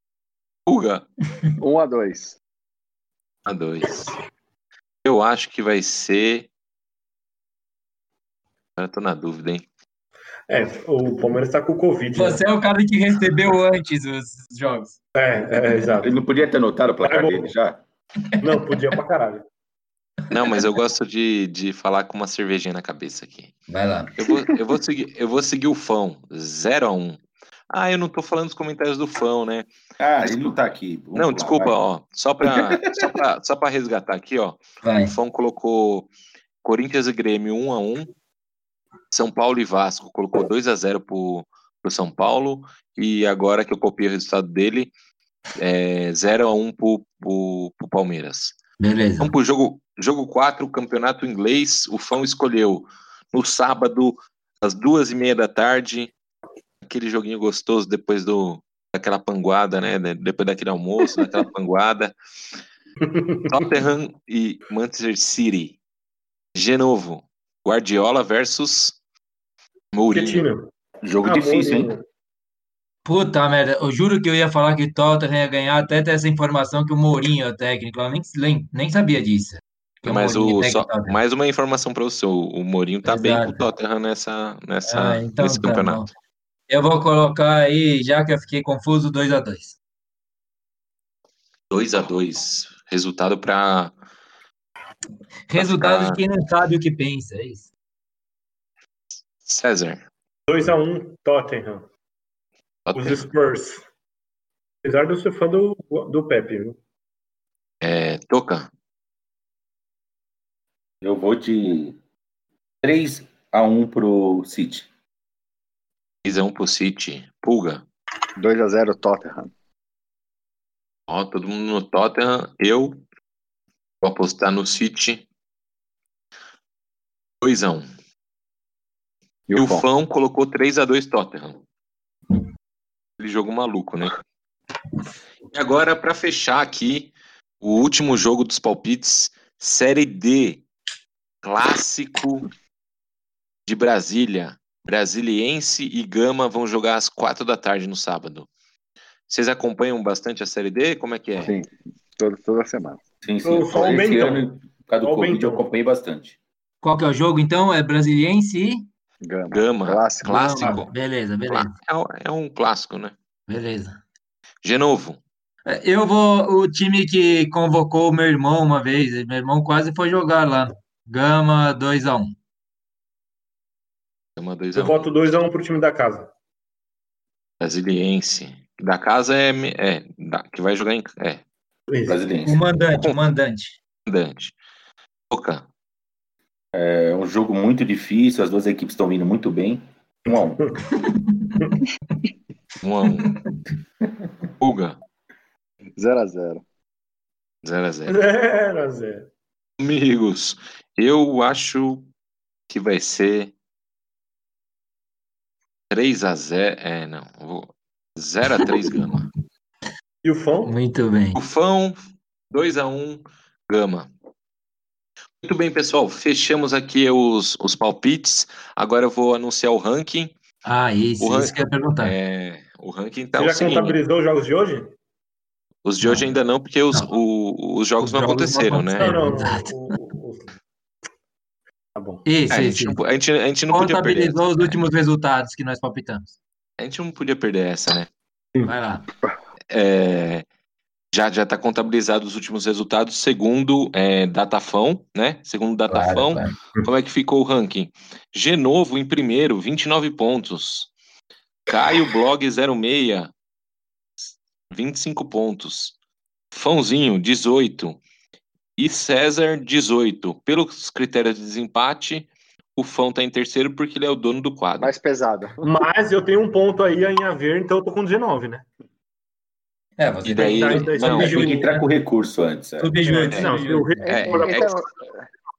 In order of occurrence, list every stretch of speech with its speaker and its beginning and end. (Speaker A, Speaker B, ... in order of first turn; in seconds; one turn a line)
Speaker A: 0.7-1.1
Speaker B: 1.6-2.4
Speaker A: 3.5-4.1
Speaker A: 5.0-6.5
Speaker A: 8.8-9.6
Speaker C: 10.5-12.4
Speaker D: 12.2-15.0
Speaker C: 15.2-16.1
Speaker D: 15.5-16.0
Speaker E: 16.0-17.8
Speaker C: 17.0-17.5
Speaker C: 18.4-19.4
Speaker A: 20.3-23.5
Speaker D: 23.7-24.1
Speaker A: 24.2-27.2
Speaker A: 27.7-29.7
Speaker E: 30.0-31.8
Speaker A: 31.1-36.1
Speaker E: 32.4-33.1
Speaker D: 34.8-35.1
Speaker A: 36.6-38.1
Speaker A: 39.1-44.9
Speaker A: 45.6-48.6
Speaker D: 48.8-49.3
Speaker A: 49.2-56.1
Speaker A: 56.9-62.1
Speaker C: 63.1-63.5
Speaker A: 63.5-65.8
Speaker A: 66.5-69.0
Speaker A: 69.9-70.5
Speaker C: 70.1-70.7
Speaker E: 71.0-71.9
Speaker C: 71.2-72.0
Speaker D: 73.0-81.1
Speaker A: 80.0-86.0
Speaker D: 83.0-83.6
Speaker D: 84.9-86.1
Speaker D: 86.7-89.8
Speaker A: 91.7-93.9
Speaker D: 95.5-97.7
Speaker A: 95.6-96.2
Speaker A: 99.4-100.0
Speaker C: 100.5-101.8
Speaker A: 102.9-103.3
Speaker C: 103.0-103.8
Speaker C: 104.8-106.8
Speaker A: 107.8-108.7
Speaker E: 111.0-112.0
Speaker E: 112.8-114.9
Speaker A: 116.2-117.8
Speaker B: 118.4-119.5
Speaker A: 121.1-123.0
Speaker A: 124.0-125.2
Speaker A: 127.4-127.9
Speaker B: 129.5-129.9
Speaker A: 129.5-131.6
Speaker A: 133.2-134.2
Speaker A: 135.5-140.7
Speaker A: 141.4-142.5
Speaker A: 143.7-148.5
Speaker A: 149.3-151.5
Speaker B: 151.4-153.0
Speaker E: 153.2-156.3
Speaker C: 153.4-154.5
Speaker C: 155.0-155.7
Speaker D: 156.8-158.8
Speaker B: 159.2-160.5
Speaker A: 159.5-160.9
Speaker D: 160.2-161.7
Speaker A: 161.5-163.2
Speaker D: 163.5-164.0
Speaker A: 164.6-165.2
Speaker D: 165.7-172.4
Speaker A: 174.4-175.2
Speaker C: 174.7-176.3
Speaker A: 177.6-181.4
Speaker C: 181.9-182.2
Speaker E: 182.1-182.6
Speaker D: 182.5-183.8
Speaker A: 184.1-184.5
Speaker A: 185.3-185.7
Speaker E: 186.7-190.6
Speaker C: 190.3-190.7
Speaker A: 192.8-193.3
Speaker A: 194.6-195.0
Speaker B: 196.0-196.6
Speaker A: 197.6-198.2
Speaker C: 198.1-199.3
Speaker A: 199.8-202.1
Speaker A: 202.7-203.5
Speaker A: 205.9-209.3
Speaker C: 210.2-210.7
Speaker D: 210.7-211.4
Speaker A: 211.3-212.0
Speaker A: 212.5-214.1
Speaker A: 215.4-220.3
Speaker D: 220.7-222.1
Speaker A: 221.2-224.0
Speaker C: 223.4-224.9
Speaker A: 225.8-229.2
Speaker D: 226.0-226.3
Speaker D: 228.0-230.0
Speaker C: 228.9-230.5
Speaker C: 231.9-232.2
Speaker D: 232.3-233.0
Speaker A: 232.5-234.8
Speaker D: 233.7-236.3
Speaker A: 236.8-238.1
Speaker D: 238.7-239.1
Speaker A: 239.7-240.5
Speaker A: 241.1-250.9
Speaker D: 245.9-246.6
Speaker A: 251.7-253.3
Speaker A: 254.7-255.9
Speaker A: 256.5-258.0
Speaker A: 258.8-264.9
Speaker B: 264.8-265.8
Speaker C: 265.6-268.6
Speaker D: 270.0-271.8
Speaker A: 270.2-271.4
Speaker C: 270.5-271.7
Speaker E: 271.1-272.9
Speaker D: 272.8-274.0
Speaker C: 273.0-274.8
Speaker A: 273.3-274.8
Speaker B: 274.1-275.2